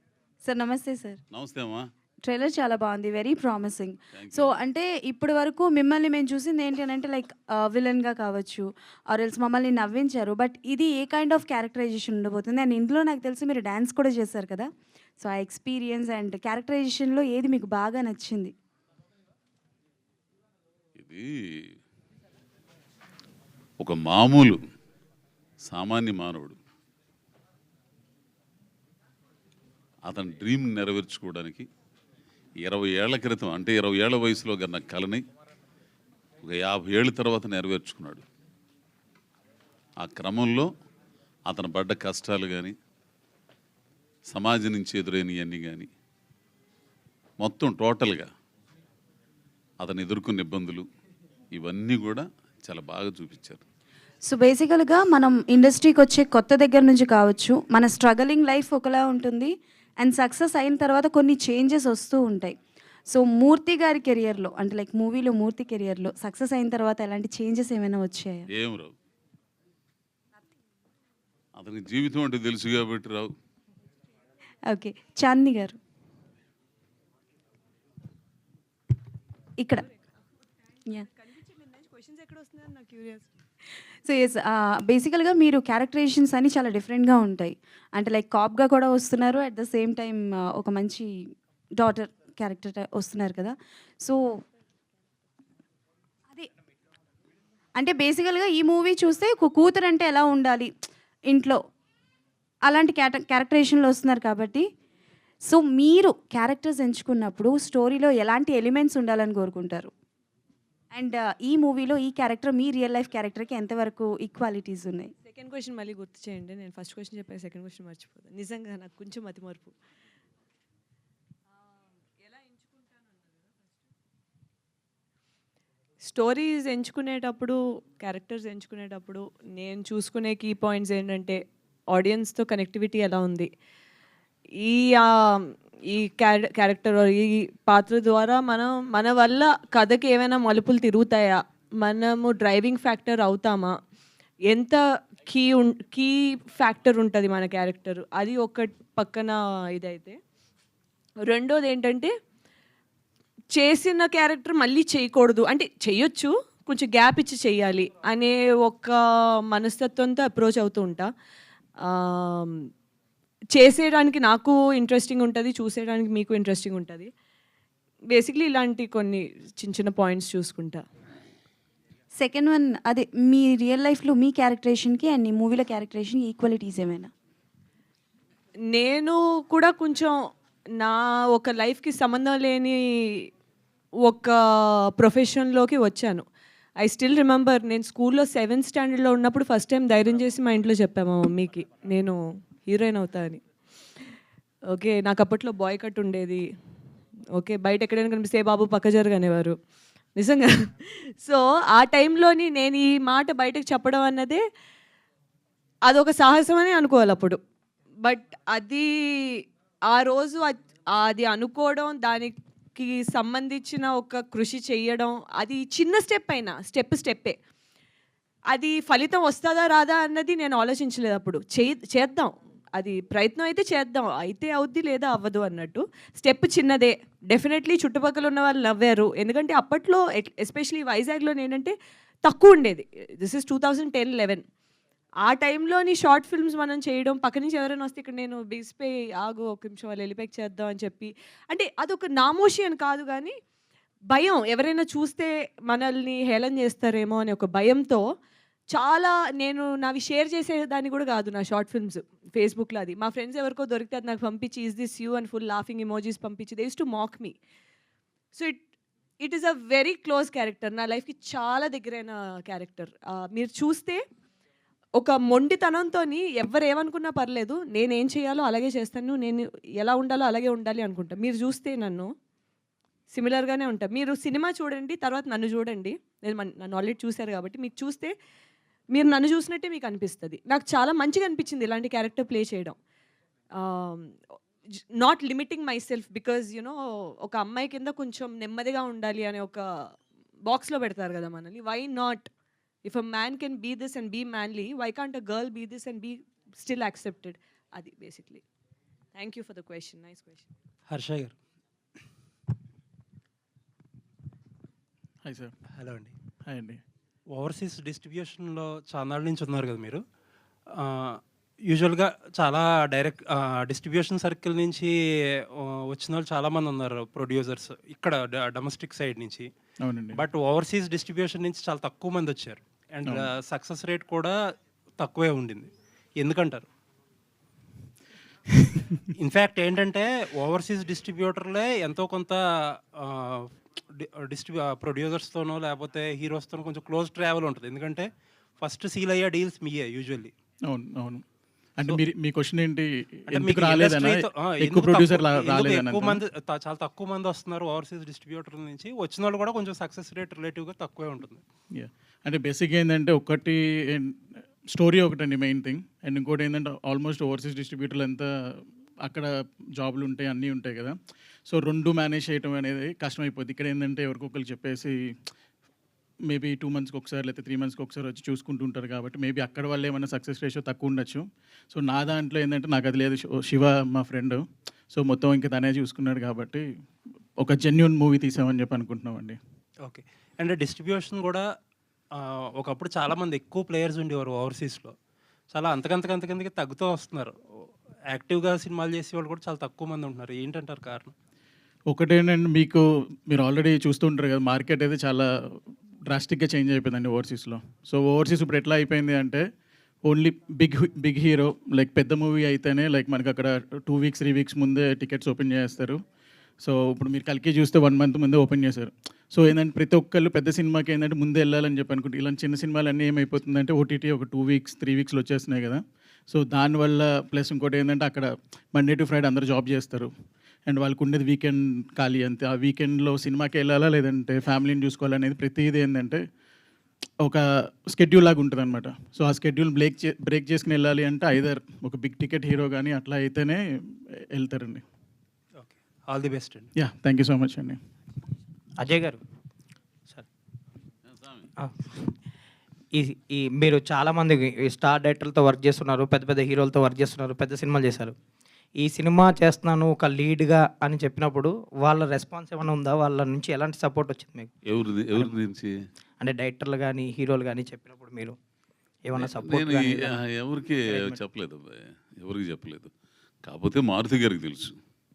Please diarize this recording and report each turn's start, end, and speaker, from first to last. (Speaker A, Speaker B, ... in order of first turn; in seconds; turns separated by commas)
Speaker A: 0.4-1.2, Speaker B: 1.3-1.8, Speaker A: 2.2-18.5, Speaker B: 4.1-4.6, Speaker B: 21.0-21.2, Speaker B: 23.8-24.6, Speaker B: 25.6-26.6, Speaker B: 30.1-31.7, Speaker B: 32.6-35.2, Speaker B: 36.4-38.2, Speaker B: 40.0-40.7, Speaker B: 41.5-42.7, Speaker B: 44.3-45.9, Speaker B: 47.4-48.3, Speaker B: 49.8-50.9, Speaker B: 51.5-53.6, Speaker A: 54.3-62.6, Speaker A: 63.1-68.5, Speaker B: 68.5-68.9, Speaker B: 71.6-73.3, Speaker A: 74.7-75.8, Speaker A: 79.6-79.9, Speaker C: 81.0-83.3, Speaker A: 84.1-91.1, Speaker A: 91.8-94.4, Speaker A: 97.8-100.7, Speaker A: 101.3-101.6, Speaker A: 102.7-104.7, Speaker A: 105.5-109.9, Speaker A: 110.9-115.1, Speaker C: 115.2-119.7, Speaker C: 122.3-122.8, Speaker C: 126.1-131.4, Speaker C: 131.9-133.5, Speaker C: 134.6-143.8, Speaker C: 144.5-150.2, Speaker C: 151.3-152.1, Speaker C: 153.6-159.0, Speaker C: 159.5-161.1, Speaker C: 161.9-162.5, Speaker C: 163.6-167.1, Speaker C: 168.2-170.8, Speaker A: 172.2-177.1, Speaker C: 178.7-180.2, Speaker C: 180.8-183.3, Speaker C: 184.1-186.2, Speaker C: 186.8-193.4, Speaker C: 194.7-196.4, Speaker C: 197.3-199.6, Speaker C: 200.2-204.4, Speaker C: 205.9-207.4, Speaker C: 208.0-217.4, Speaker C: 218.5-231.7, Speaker C: 232.2-234.4, Speaker C: 235.2-243.3, Speaker C: 244.1-248.0, Speaker C: 248.7-257.4, Speaker C: 258.4-258.6, Speaker C: 259.2-264.0, Speaker C: 265.0-272.1, Speaker C: 273.1-278.1, Speaker C: 278.9-282.8, Speaker C: 283.6-284.2, Speaker C: 285.0-289.6, Speaker C: 290.5-292.3, Speaker C: 292.9-298.4, Speaker C: 299.1-300.5, Speaker D: 300.9-301.3, Speaker E: 305.2-305.5, Speaker D: 305.7-306.1, Speaker E: 306.5-306.8, Speaker D: 307.4-310.0, Speaker D: 310.8-314.9, Speaker D: 315.6-319.5, Speaker E: 319.9-320.2, Speaker D: 320.1-324.4, Speaker D: 325.0-326.7, Speaker D: 329.2-340.3, Speaker E: 340.7-341.2, Speaker E: 341.8-346.1, Speaker D: 343.3-351.4, Speaker E: 351.8-354.1, Speaker E: 354.7-358.3, Speaker E: 359.0-360.9, Speaker E: 361.5-364.9, Speaker E: 366.3-374.4, Speaker E: 374.9-376.6, Speaker E: 377.4-379.4, Speaker D: 379.9-381.4, Speaker D: 382.2-384.9, Speaker D: 385.5-391.1, Speaker E: 391.9-395.2, Speaker E: 396.1-399.4, Speaker E: 400.0-406.0, Speaker E: 406.6-420.1, Speaker E: 420.7-426.2, Speaker E: 427.9-433.6, Speaker E: 434.4-434.8, Speaker D: 435.6-436.7, Speaker E: 436.8-437.8, Speaker F: 438.8-439.2, Speaker B: 441.1-441.5, Speaker F: 442.9-448.1, Speaker F: 448.8-454.5, Speaker B: 454.7-455.7, Speaker F: 456.2-458.3, Speaker F: 459.1-460.2, Speaker B: 459.1-462.9, Speaker F: 460.9-461.2, Speaker B: 463.5-464.8